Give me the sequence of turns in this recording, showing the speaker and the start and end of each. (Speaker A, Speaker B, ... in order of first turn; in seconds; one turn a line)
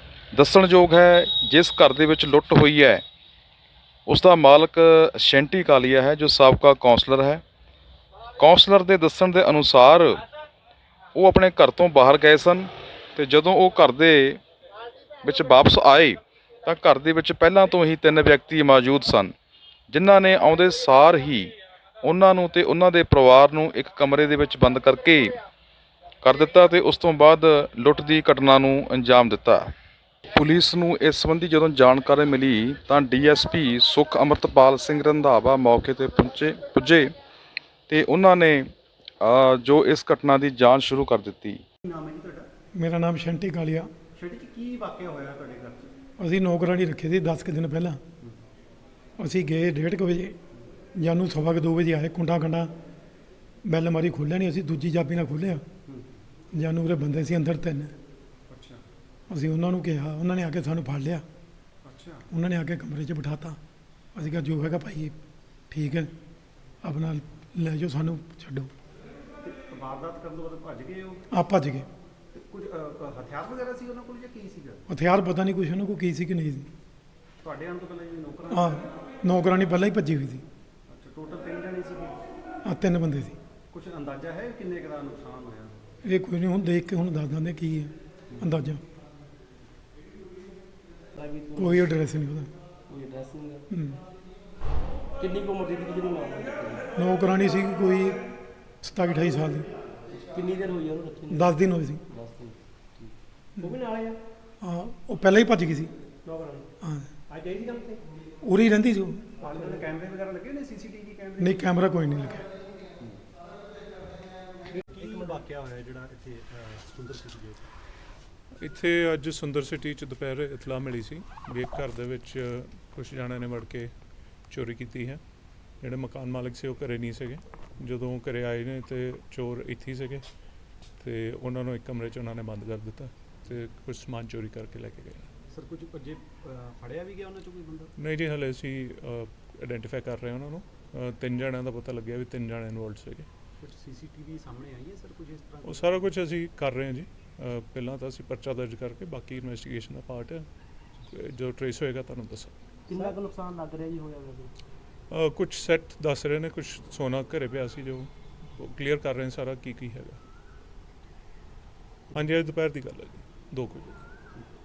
Speaker A: 0.3-3.0
Speaker A: 4.1-7.4
Speaker A: 8.4-10.2
Speaker A: 11.1-14.4
Speaker A: 15.2-19.3
Speaker A: 19.9-21.5
Speaker A: 22.0-25.4
Speaker A: 26.2-29.7
Speaker A: 30.3-37.1
Speaker A: 37.9-41.6
Speaker B: 41.8-42.5
Speaker C: 42.8-43.9
Speaker B: 44.1-45.9
Speaker C: 46.2-48.0
Speaker C: 49.2-50.4
Speaker C: 51.0-52.7
Speaker C: 53.6-55.6
Speaker B: 55.9-56.2
Speaker C: 56.5-57.9
Speaker B: 58.5-58.8
Speaker C: 59.3-61.2
Speaker B: 61.9-62.3
Speaker C: 62.3-63.6
Speaker C: 64.2-65.2
Speaker C: 65.7-66.1
Speaker C: 66.8-68.7
Speaker B: 69.4-71.3
Speaker C: 71.3-71.9
Speaker B: 72.3-74.8
Speaker C: 74.9-76.7
Speaker B: 77.4-78.9
Speaker C: 78.5-80.5
Speaker B: 80.9-82.2
Speaker C: 82.7-83.4
Speaker B: 83.7-85.9
Speaker C: 86.0-88.8
Speaker B: 88.3-88.6
Speaker D: 91.1-91.9
Speaker C: 91.6-92.5
Speaker D: 92.9-93.7
Speaker C: 93.7-94.0
Speaker D: 95.2-96.9
Speaker C: 97.0-98.2
Speaker C: 98.8-99.7
Speaker D: 100.1-104.2
Speaker C: 101.3-102.0
Speaker C: 104.6-105.9
Speaker D: 106.2-106.7
Speaker C: 106.8-107.1
Speaker B: 107.3-108.0
Speaker D: 107.5-108.0
Speaker C: 108.4-109.3
Speaker B: 109.4-111.8
Speaker D: 109.4-109.9
Speaker C: 111.4-112.5
Speaker B: 114.8-117.7
Speaker D: 115.0-115.4
Speaker E: 118.6-123.9
Speaker E: 124.5-125.2
Speaker E: 125.8-130.2
Speaker E: 131.0-135.3
Speaker B: 135.5-137.9
Speaker E: 138.0-143.3
Speaker B: 143.6-146.1
Speaker E: 145.6-150.5
Speaker E: 151.1-152.5
Speaker D: 152.9-154.5
Speaker E: 155.1-160.2
Speaker D: 162.1-162.4
Speaker E: 162.1-164.0